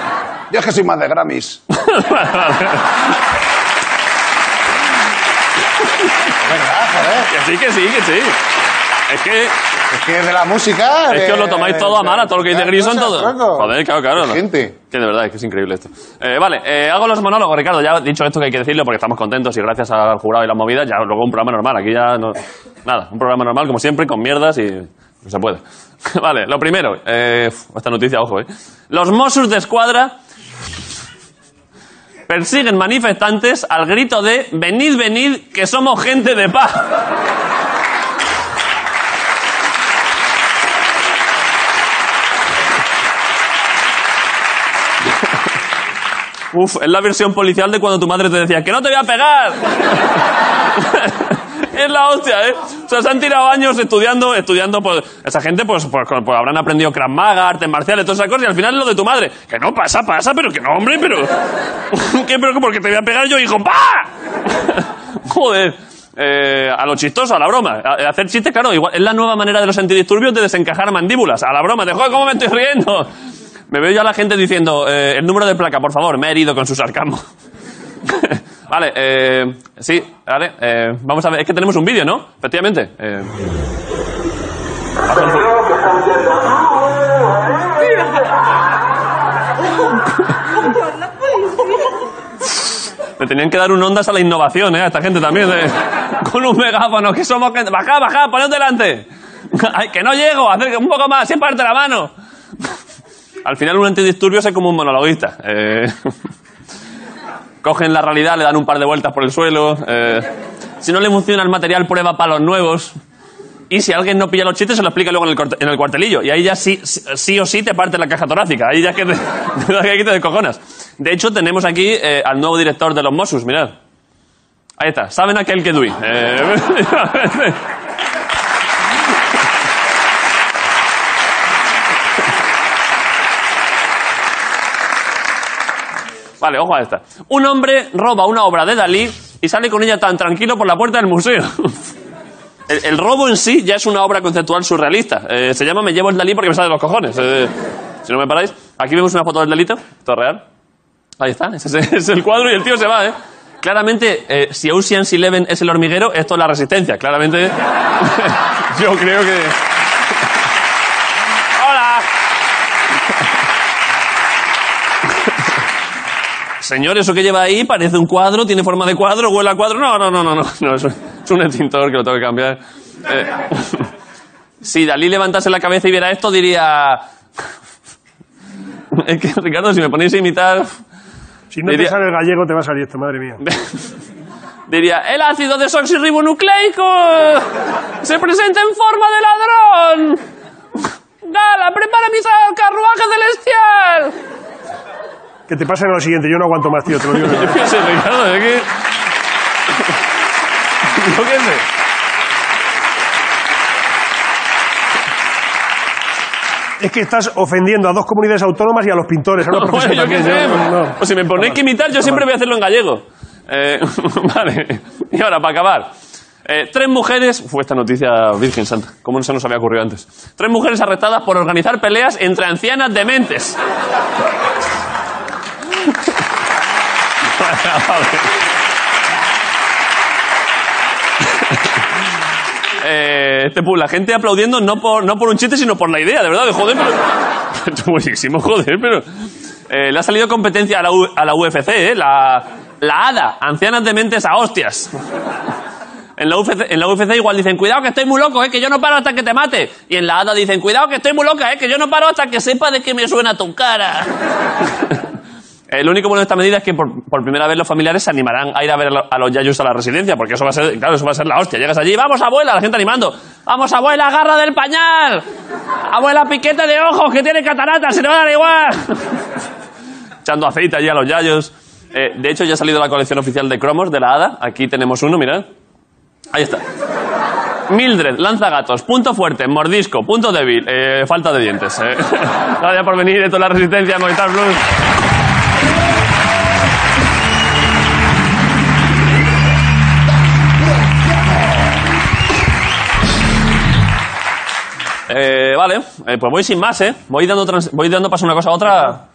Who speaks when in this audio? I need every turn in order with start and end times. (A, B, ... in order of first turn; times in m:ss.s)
0:00.5-0:01.6 A
0:01.8-0:03.0 B
0:06.4-0:07.3 A
0:07.3-0:08.4 B
0:09.1-0:09.5 B
0:09.9-0:14.7 A
0:11.1-0:30.2 B
0:32.3-0:36.9 B
0:46.5-0:50.2 B
0:50.7-1:01.3 B
1:01.9-1:13.1 B
1:13.7-1:17.2 B
1:18.0-1:23.3 B
1:25.0-1:25.5 B
1:33.2-1:42.1 B
1:43.4-1:46.1 B
1:47.6-1:50.3 B
1:50.8-1:53.0 B
1:53.7-2:03.7 B
2:04.8-2:07.6 B
2:16.4-2:21.9 B
2:22.7-2:30.4 B
2:31.2-2:39.6 B
2:41.6-2:42.0 B
2:46.6-2:53.9 B
2:54.6-2:57.1 B
2:58.9-3:00.7 B
3:01.5-3:03.4 C
3:01.7-3:02.0 B
3:03.4-3:03.8 B
3:04.7-3:07.5 B
3:08.0-3:10.2 B
3:11.2-3:14.1 B
3:15.5-3:17.6 C
3:17.1-3:18.7 B
3:20.9-3:21.6 B
3:26.8-3:31.6 C
3:29.5-3:35.9 B
3:36.4-3:43.6 B
3:47.3-3:48.3 B
3:52.8-3:59.0 B
3:59.7-4:04.9 B
4:06.2-4:14.1 B
4:15.7-4:25.2 B
4:25.9-4:29.2 B
4:30.2-4:35.4 B
4:36.3-4:36.6 B
4:37.7-4:44.6 B
4:55.1-4:59.0 B